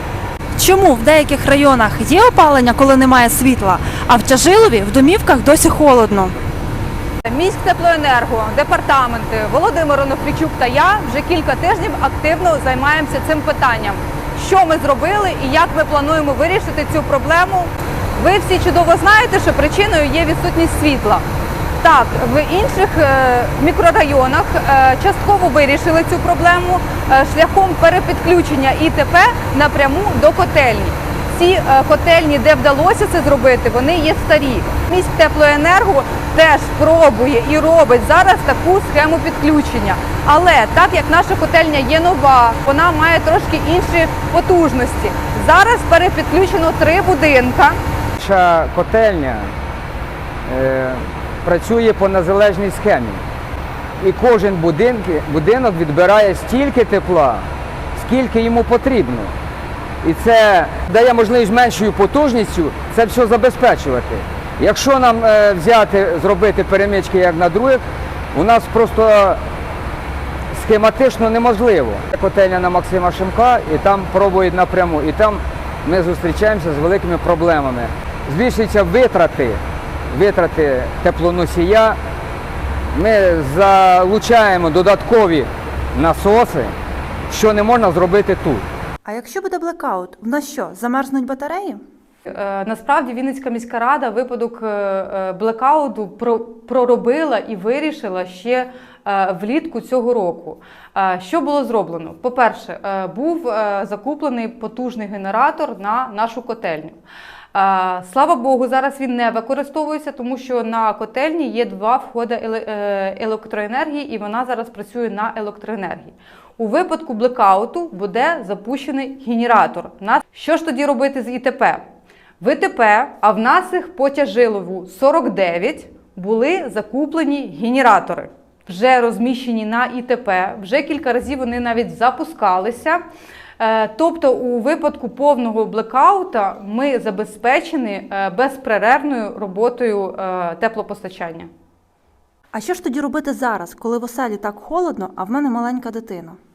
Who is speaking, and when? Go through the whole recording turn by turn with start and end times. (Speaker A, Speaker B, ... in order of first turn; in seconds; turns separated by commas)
Speaker A: 0.6-6.4, Speaker B: 7.2-21.2, Speaker B: 21.8-47.8, Speaker C: 48.2-49.5, Speaker C: 50.5-53.2, Speaker C: 54.0-59.3, Speaker C: 60.0-67.8, Speaker C: 68.3-69.4, Speaker C: 70.5-79.6, Speaker C: 80.1-82.0, Speaker C: 82.9-86.7, Speaker C: 87.3-88.6, Speaker A: 89.0-91.8, Speaker B: 92.3-107.0, Speaker B: 107.5-121.8, Speaker B: 122.4-133.0, Speaker B: 133.6-141.5, Speaker A: 142.5-146.4